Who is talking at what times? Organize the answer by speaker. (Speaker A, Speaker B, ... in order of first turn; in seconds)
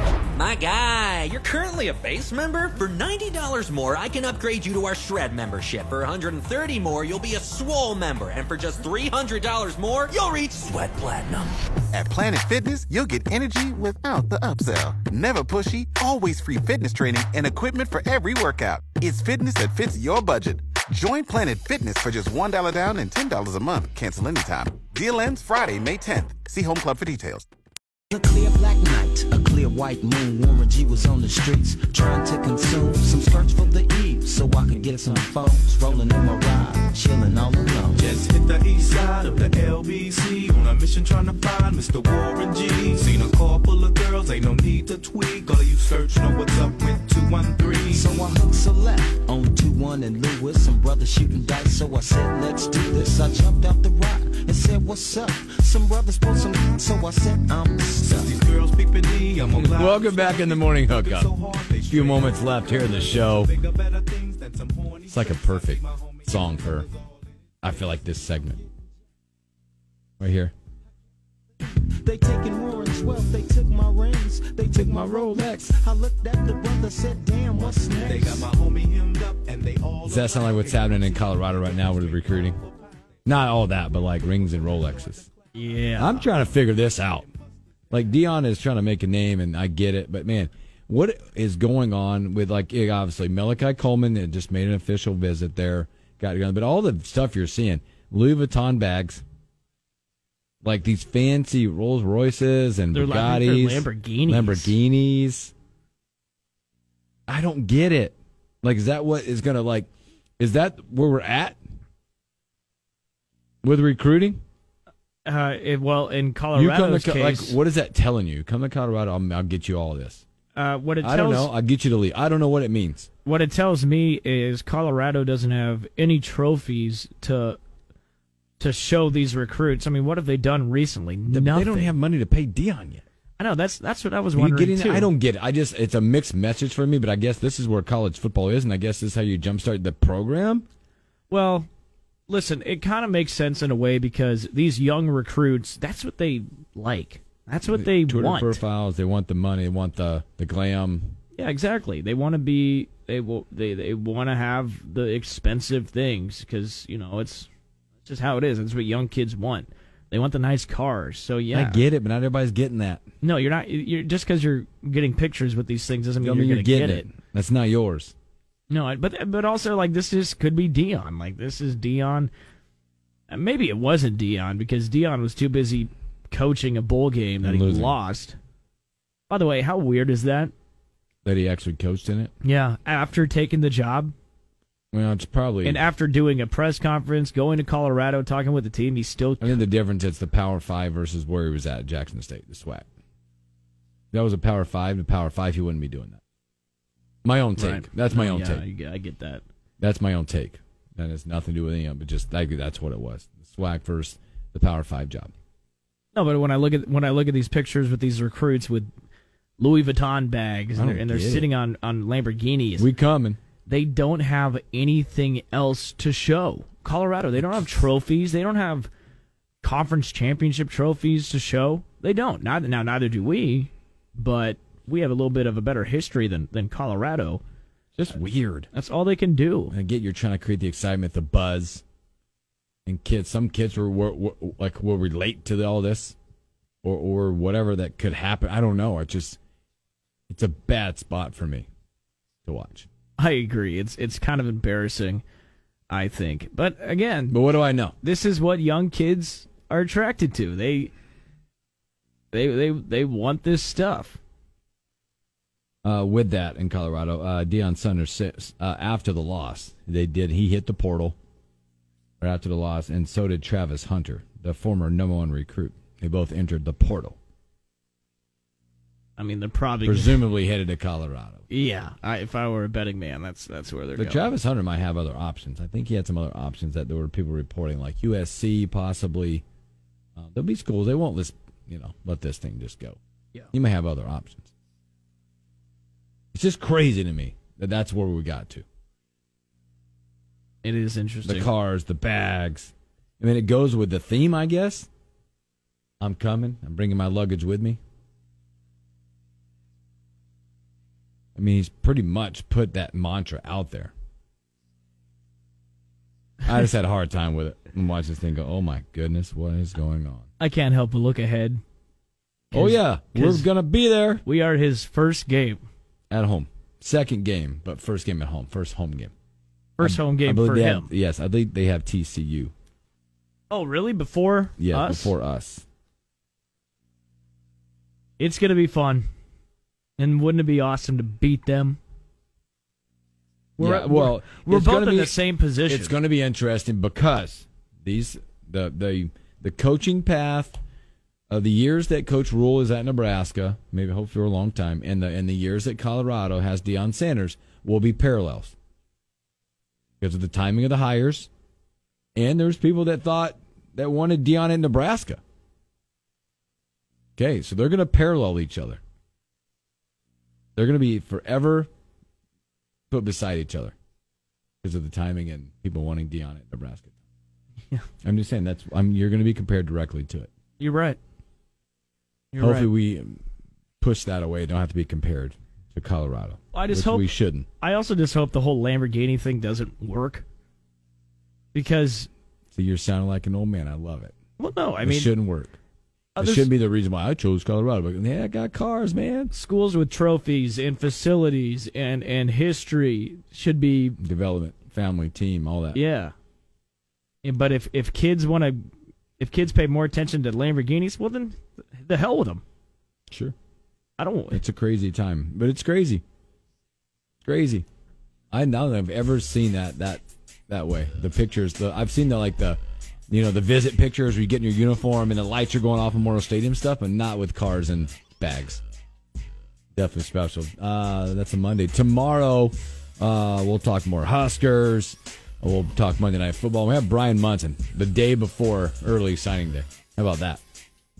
Speaker A: 0.3-11.5
Speaker B: 11.9-27.5
Speaker C: 28.1-38.1, 47.9-58.4, 71.9-78.5
Speaker D: 38.0-48.1, 58.0-66.9, 77.6-82.5
Speaker E: 59.5-61.3, 61.9-63.5, 65.1-66.9, 67.6-68.6, 70.2-70.5, 74.7-75.8, 80.0-82.6, 83.2-85.3, 86.0-87.3, 87.9-99.2, 100.6-105.5, 107.3-109.9, 110.4-111.6, 113.6-114.4, 116.5-120.2, 121.0-123.1, 131.3-133.0, 134.3-140.7, 147.7-151.2, 161.5-163.0, 166.2-168.1, 177.4-177.9, 181.2-182.3, 184.9-185.9, 189.4-192.8, 194.1-196.2, 197.2-198.6, 199.8-205.3, 210.7-211.5, 212.8-213.4, 228.0-228.7, 229.7-231.8, 232.8-236.2, 236.8-239.4, 240.3-241.7, 242.4-242.9, 247.3-247.9, 255.8-261.2, 262.2-267.2, 269.9-271.5, 273.9-279.4, 280.2-283.0, 283.5-284.5, 286.3-288.6, 291.2-294.9, 296.0-297.8, 301.4-303.9, 306.4-310.3, 312.5-314.2, 316.1-319.1, 319.8-322.5, 324.6-325.6, 333.6-340.6, 341.3-348.5, 350.0-351.3, 352.1-355.2, 357.2-358.8, 360.6-361.7, 362.9-363.7, 364.6-366.9, 368.0-370.3, 372.4-373.2, 373.8-377.5, 382.5-384.1, 384.8-385.6, 386.2-389.3, 394.0-395.8, 404.3-406.0, 407.2-407.6, 408.3-418.6, 419.7-430.4
Speaker F: 85.5-86.3, 102.9-104.7, 115.2-117.6, 120.5-121.5, 123.2-127.6, 128.6-131.9, 133.4-135.1, 141.3-141.7, 142.3-148.6, 151.3-157.5, 158.0-161.8, 163.2-167.1, 168.7-172.3, 173.3-178.3, 179.3-180.5, 182.4-184.1, 185.6-189.6, 197.6-199.4, 206.1-208.9, 209.6-212.9, 213.7-218.9, 219.6-227.4, 228.7-229.7, 243.2-245.2, 245.9-247.4, 248.0-250.9, 252.3-254.2, 269.2-270.2, 271.5-274.3, 290.6-291.5, 310.4-311.6, 312.5-313.5, 314.2-315.6, 319.8-320.9, 323.5-325.1, 328.2-329.1, 330.0-331.8, 333.6-336.0, 370.6-371.0, 372.3-372.7, 376.5-380.2, 381.5-382.1, 384.4-385.1, 386.1-386.5, 389.3-394.0, 395.7-396.1, 397.2-398.6, 399.2-402.4, 404.0-404.4